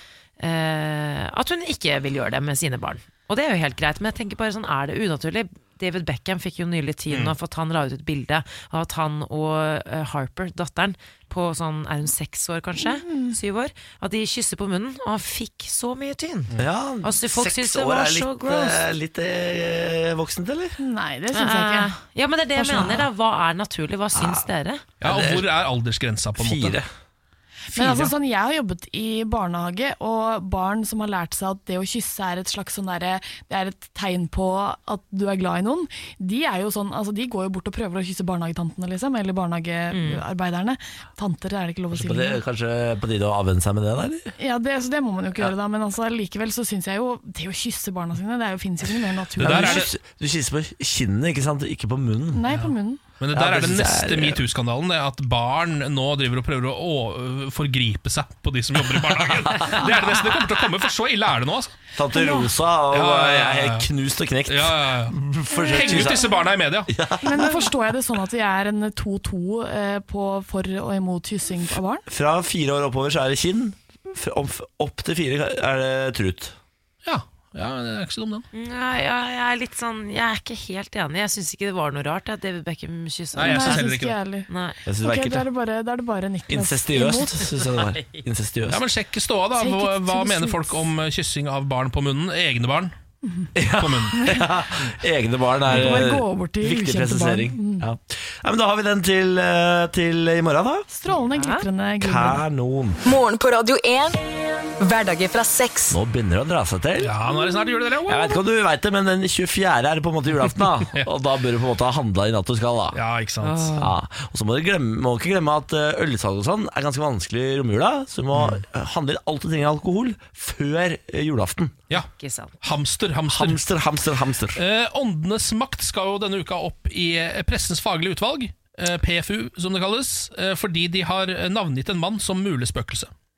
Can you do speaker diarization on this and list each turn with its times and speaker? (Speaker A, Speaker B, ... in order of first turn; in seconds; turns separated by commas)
Speaker A: 0.4-18.8, Speaker B: 12.8-13.4, Speaker C: 16.6-20.8, Speaker B: 20.8-21.9, Speaker A: 21.3-24.8, Speaker B: 22.5-23.1, Speaker C: 24.1-24.4, Speaker D: 25.0-26.8, Speaker C: 25.0-25.5, Speaker C: 26.4-26.9, Speaker D: 27.7-28.1, Speaker B: 27.7-42.4, Speaker A: 39.9-40.2, Speaker C: 41.9-44.3, Speaker B: 44.4-49.9, Speaker D: 49.4-49.9, Speaker C: 49.4-52.5, Speaker B: 52.3-53.0, Speaker D: 53.2-61.7, Speaker C: 53.3-54.4, Speaker C: 59.3-59.9, Speaker C: 62.0-66.3, Speaker B: 62.1-62.5, Speaker D: 62.9-63.9, Speaker D: 64.5-66.9, Speaker B: 65.5-66.4, Speaker C: 66.9-67.8, Speaker B: 67.2-72.0, Speaker C: 72.1-76.5, Speaker D: 77.0-78.5, Speaker A: 78.5-83.8, Speaker D: 83.3-84.2, Speaker B: 83.4-87.6, Speaker A: 84.5-84.8, Speaker C: 84.8-85.4, Speaker C: 86.5-88.8, Speaker D: 88.7-92.9, Speaker B: 89.5-90.9, Speaker B: 93.2-93.5, Speaker C: 93.5-100.9, Speaker D: 93.8-94.2, Speaker B: 94.1-94.5, Speaker B: 95.7-97.8, Speaker D: 95.7-96.0, Speaker B: 100.9-102.4, Speaker A: 101.3-101.7, Speaker C: 102.0-103.0, Speaker E: 103.0-104.2, Speaker E: 104.8-106.0, Speaker C: 105.9-107.2, Speaker D: 107.0-108.4, Speaker C: 108.1-113.0, Speaker D: 112.9-113.7, Speaker A: 113.4-113.9, Speaker C: 113.8-121.8, Speaker D: 118.3-118.6, Speaker A: 121.9-122.6, Speaker D: 122.6-123.6, Speaker C: 123.3-124.6, Speaker D: 124.5-133.1